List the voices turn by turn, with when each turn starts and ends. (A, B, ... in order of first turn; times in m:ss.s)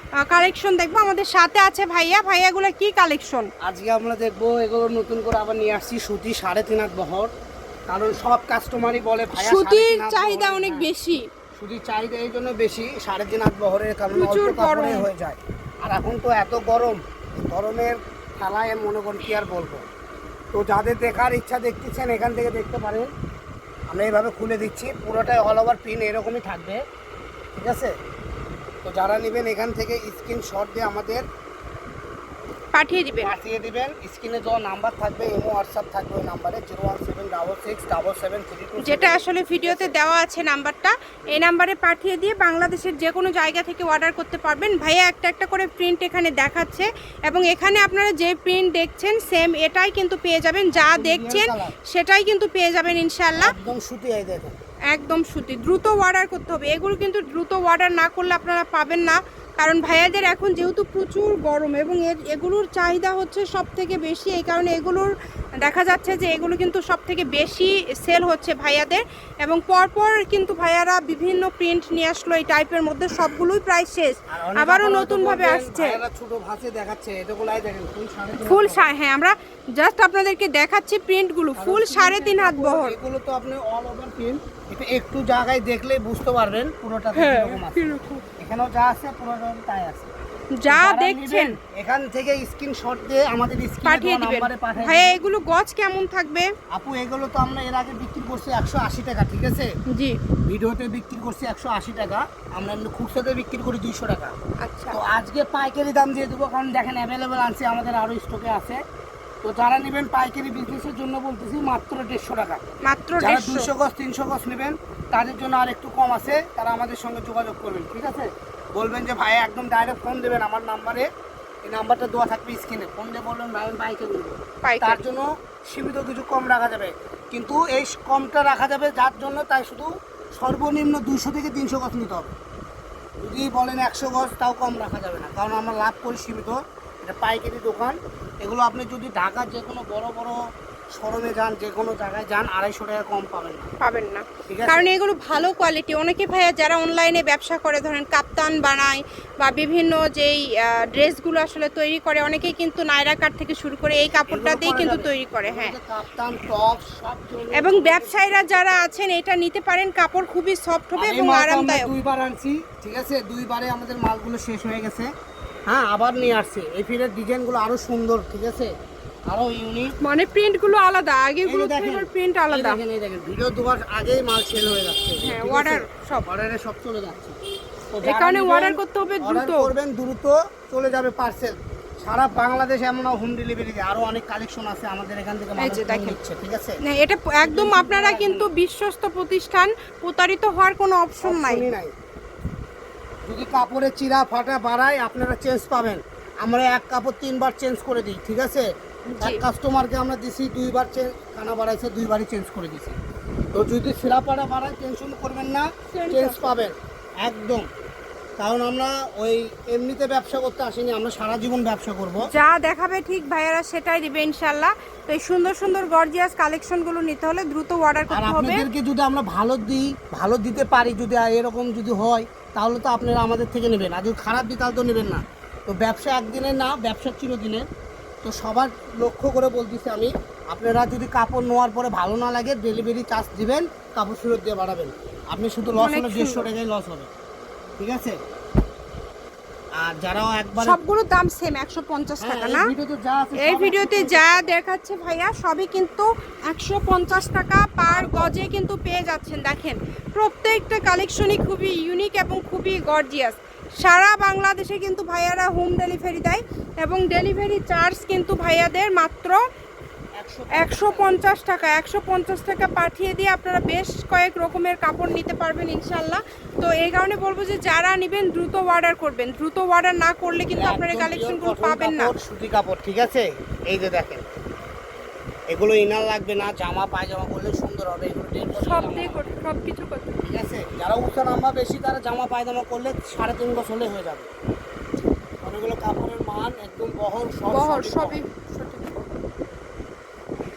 0:00.2-0:03.5 A
0:03.6-0:07.3 B
0:07.9-0:10.9 B
0:09.4-0:11.2 A
0:11.5-0:19.8 B
0:14.1-0:15.1 A
0:20.5-0:23.1 B
0:23.9-0:26.8 B
0:27.5-0:27.9 B
0:28.8-0:31.2 B
0:32.7-0:33.3 A
0:33.2-0:40.0 B
0:38.8-0:53.5 A
0:50.7-0:51.7 B
0:53.4-0:54.5 B
0:54.9-1:16.0 A
1:14.3-1:18.9 B
1:18.4-1:23.0 A
1:21.6-1:30.1 B
1:27.1-1:28.2 A
1:30.5-1:31.6 A
1:30.7-1:35.2 B
1:33.8-1:36.5 A
1:36.7-1:39.7 B
1:39.9-1:40.2 A
1:40.5-1:44.3 B
1:44.6-1:45.0 A
1:44.9-1:48.8 B
1:49.4-1:52.6 B
1:52.8-1:53.7 A
1:53.2-2:01.1 B
2:01.6-2:12.3 B
2:04.6-2:05.0 A
2:13.2-2:20.4 B
2:20.9-2:23.7 B
2:23.8-2:35.7 A
2:24.5-2:24.9 B
2:34.3-2:38.9 B
2:37.5-2:41.9 A
2:41.0-2:45.1 B
2:45.7-2:48.7 B
2:49.3-2:49.9 B
2:50.0-2:52.8 A
2:51.4-2:57.4 B
2:55.2-2:56.3 A
2:57.9-3:08.5 B
2:58.1-2:59.7 A
3:05.6-3:06.2 A
3:06.8-3:11.6 A
3:11.2-3:11.9 B
3:13.3-3:18.7 B
3:19.1-3:19.4 A
3:19.2-3:23.0 B
3:23.5-3:27.6 B
3:25.9-3:26.6 A
3:28.4-3:32.2 B
3:32.3-3:38.7 A
3:38.1-3:47.6 B
3:48.2-3:57.1 B
3:55.8-3:56.4 A
3:57.8-3:58.2 B
3:59.8-4:00.8 B
4:00.6-4:02.7 A
4:02.2-4:04.5 B
4:03.4-4:19.4 A
4:07.8-4:08.4 B
4:20.2-4:21.2 B
4:20.6-4:32.1 A
4:30.6-4:34.2 B
4:35.5-4:39.2 B
4:38.6-4:40.2 A
4:40.2-4:44.3 B
4:45.4-4:48.2 B
4:47.5-4:49.1 A